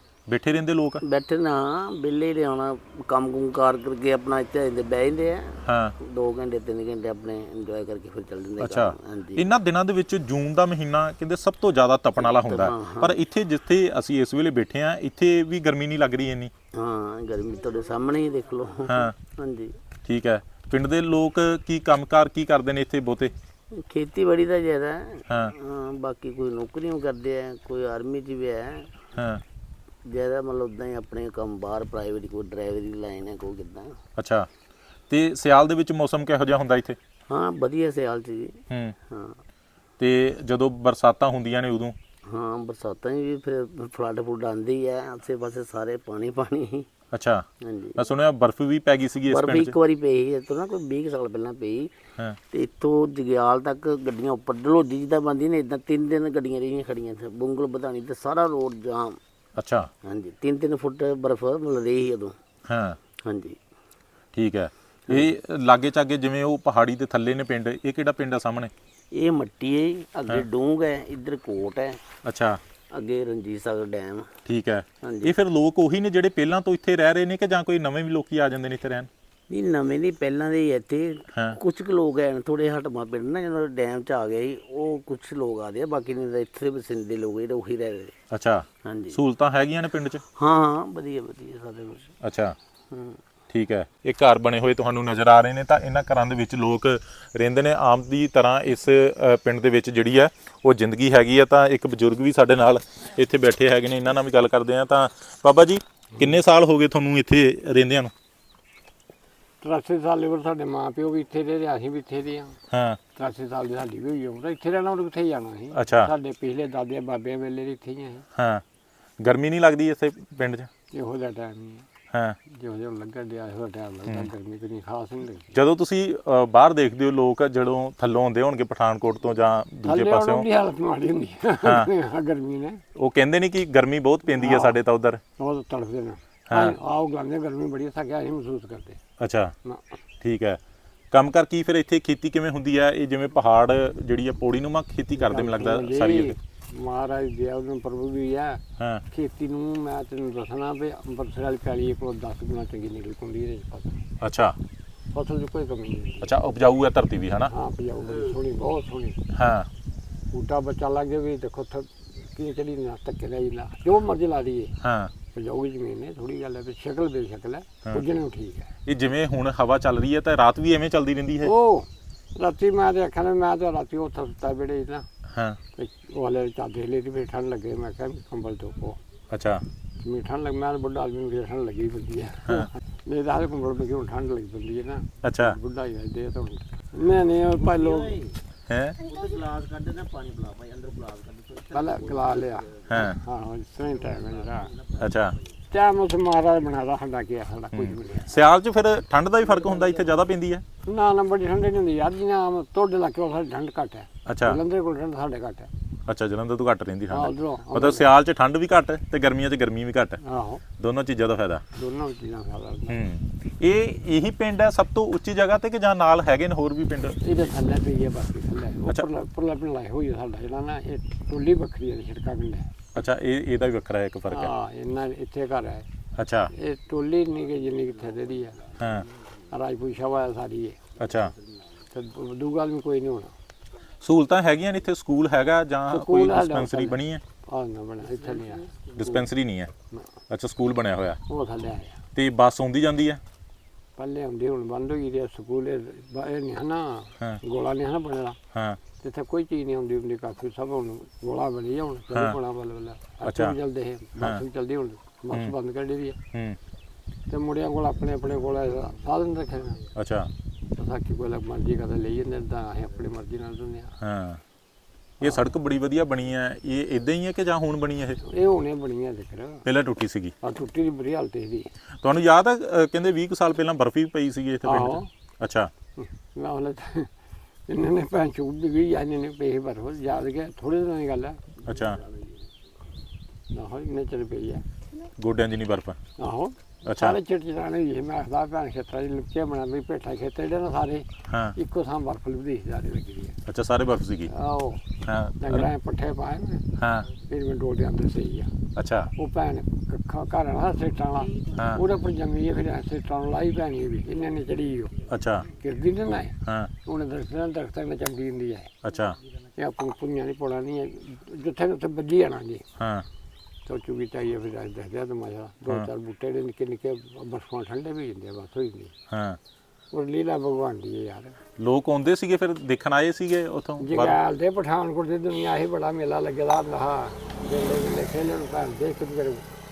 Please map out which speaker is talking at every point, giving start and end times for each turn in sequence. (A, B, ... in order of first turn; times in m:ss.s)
0:00.3-0:01.0 A
0:01.0-0:09.5 B
0:05.6-0:06.0 A
0:08.6-0:16.5 A
0:12.2-0:13.2 B
0:16.7-0:19.8 B
0:18.9-0:19.1 A
0:20.1-0:23.3 A
0:23.8-0:28.9 B
0:29.2-0:29.4 A
0:30.0-0:34.0 B
0:34.2-0:34.5 A
0:35.1-0:37.0 A
0:37.3-0:38.6 B
0:38.7-0:39.0 A
0:39.1-0:39.4 B
0:40.0-0:42.0 A
0:42.3-0:46.9 B
0:47.1-0:49.8 A
0:47.6-0:48.0 B
0:49.3-0:51.9 B
0:52.5-0:59.2 B
0:59.6-0:59.9 A
1:00.0-1:02.3 B
1:02.7-1:03.0 A
1:03.2-1:03.6 B
1:04.3-1:08.7 A
1:05.1-1:05.3 B
1:09.1-1:12.0 B
1:12.2-1:12.6 A
1:12.9-1:14.3 B
1:14.5-1:19.1 A
1:15.0-1:15.3 B
1:19.5-1:28.1 B
1:28.3-1:30.2 A
1:28.8-1:29.2 B
1:30.3-1:32.1 B
1:32.2-1:32.6 A
1:32.9-1:33.2 B
1:33.5-1:48.1 A
1:49.6-1:52.6 C
1:52.7-1:53.0 A
1:53.2-1:58.3 C
1:55.7-1:56.1 A
1:58.4-1:58.6 A
1:59.2-2:00.7 A
2:00.9-2:01.9 C
2:02.1-2:02.4 A
2:02.5-2:05.6 C
2:05.5-2:10.5 A
2:09.8-2:12.8 C
2:11.6-2:11.9 A
2:13.0-2:15.2 A
2:14.4-2:14.8 C
2:15.4-2:19.0 C
2:16.5-2:16.8 A
2:19.2-2:19.5 A
2:19.6-2:20.0 C
2:20.2-2:20.6 A
2:21.1-2:26.4 A
2:25.1-2:34.0 C
2:34.2-2:34.6 A
2:35.1-2:36.4 C
2:36.2-2:37.5 A
2:37.5-2:39.2 C
2:39.3-2:39.7 A
2:40.3-2:44.8 C
2:44.8-2:45.1 A
2:45.3-2:48.7 C
2:48.9-2:51.5 A
2:51.4-2:55.1 C
2:55.3-2:55.6 A
2:55.8-2:59.0 C
2:59.3-2:59.6 A
3:00.0-3:08.3 C
3:05.2-3:05.6 A
3:07.5-3:08.4 B
3:08.7-3:09.0 A
3:09.0-3:13.1 B
3:11.7-3:14.8 C
3:12.9-3:13.2 A
3:14.4-3:15.0 B
3:15.0-3:15.4 A
3:15.7-3:18.4 C
3:17.7-3:20.6 A
3:20.9-3:25.7 C
3:24.3-3:24.6 A
3:26.1-3:30.2 A
3:27.1-3:28.1 C
3:30.2-3:30.6 C
3:30.8-3:31.6 A
3:31.7-3:33.0 C
3:32.9-3:37.5 A
3:37.2-3:42.9 C
3:43.0-3:44.5 A
3:44.3-3:45.9 C
3:46.2-3:46.5 A
3:46.5-3:48.8 C
3:48.8-3:49.1 A
3:49.5-3:51.0 C
3:51.0-3:51.4 A
3:51.9-3:53.3 C
3:54.0-3:57.2 A
3:55.9-3:59.1 C
3:59.0-3:59.7 A
4:00.3-4:01.2 A
4:01.3-4:02.0 C
4:02.2-4:03.2 A
4:04.0-4:08.4 C
4:08.5-4:08.8 A
4:09.0-4:16.2 C
4:13.2-4:13.6 A
4:16.3-4:16.6 A
4:17.3-4:19.9 C
4:20.0-4:20.3 A
4:20.7-4:24.0 C
4:24.0-4:24.4 A
4:25.2-4:25.5 C
4:25.2-4:28.2 A
4:28.2-4:29.7 C
4:29.6-4:30.3 A
4:30.4-4:31.7 C
4:32.0-4:35.7 A
4:34.6-4:35.1 C
4:36.0-4:37.1 C
4:37.7-4:41.5 C
4:41.7-4:42.0 A
4:43.5-4:44.6 C
4:45.2-4:46.0 A
4:46.2-4:53.4 C
4:46.8-4:47.2 A
4:51.3-4:51.6 A
4:53.5-4:54.3 A
4:54.3-4:54.9 C
4:55.0-4:55.7 A
4:55.4-4:58.5 C
4:56.8-4:57.1 A
4:58.8-4:59.1 A
4:59.2-5:08.8 C
5:01.5-5:01.8 A
5:05.1-5:05.5 A
5:06.4-5:06.7 A
5:08.8-5:09.2 A
5:09.6-5:12.6 C
5:12.8-5:13.1 A
5:13.7-5:18.9 C
5:19.1-5:19.4 A
5:19.9-5:21.4 C
5:21.6-5:24.2 A
5:23.8-5:29.5 C